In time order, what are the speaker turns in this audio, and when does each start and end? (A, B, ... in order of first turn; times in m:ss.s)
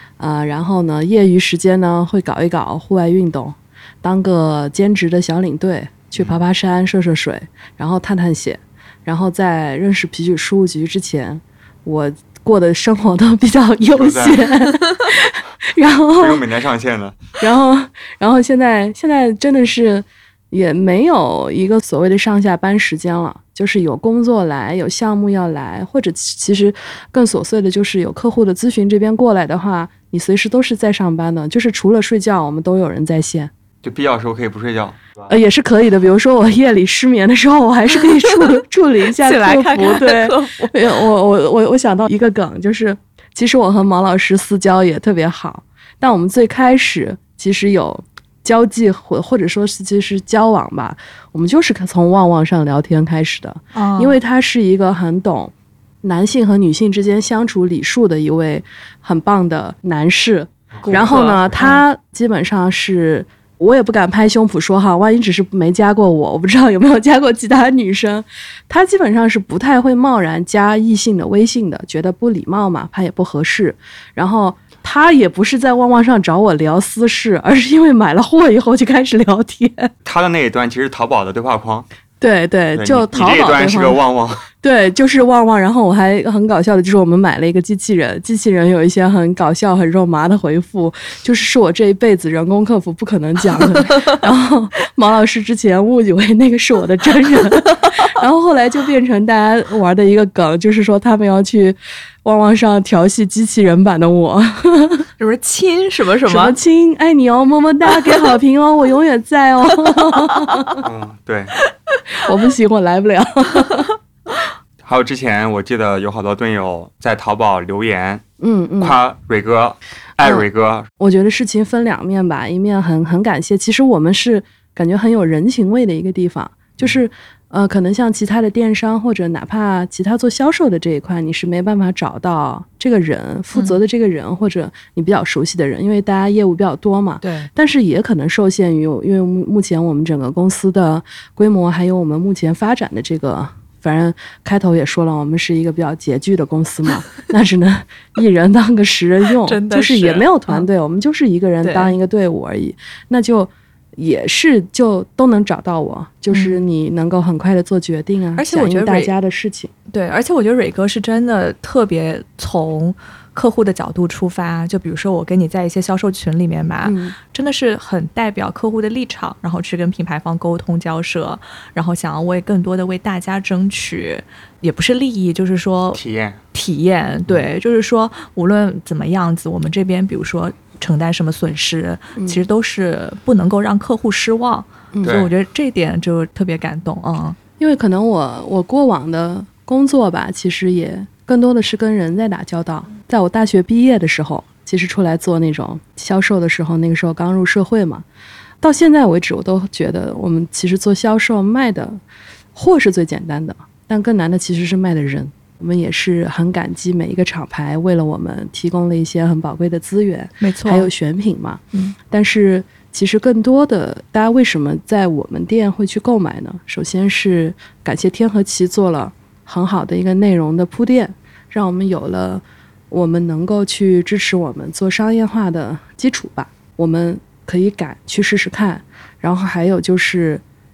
0:00.2-0:16.4 A
0:13.8-0:14.5 B
0:16.2-0:17.2 B
0:17.4-0:33.5 A
0:33.8-0:35.3 B
0:35.3-1:19.9 A
0:39.2-0:40.9 C
0:53.8-0:54.2 C
1:00.8-1:01.8 B
1:00.9-1:01.7 C
1:20.0-1:21.9 B
1:22.2-1:24.0 A
1:22.8-1:24.5 B
1:24.6-1:45.1 A
1:45.2-1:46.6 C
1:46.3-1:50.8 A
1:50.5-1:50.8 C
1:50.8-1:51.5 B
1:52.2-1:53.9 A
1:54.8-1:58.2 B
1:58.4-1:59.0 A
1:58.8-2:00.9 B
2:00.2-2:00.4 A
2:01.0-2:39.7 A
2:17.2-2:17.5 C
2:29.5-2:30.7 C
2:31.6-2:32.0 C
2:36.3-2:36.6 C
2:38.4-2:39.1 C
2:39.9-2:56.0 C
2:46.8-2:47.2 A
2:55.9-2:56.4 B
2:56.5-3:07.4 C
3:02.2-3:02.4 A
3:05.0-3:05.3 B
3:07.6-3:18.0 A
3:18.6-3:22.0 A
3:22.6-3:50.4 A
3:30.4-3:30.9 C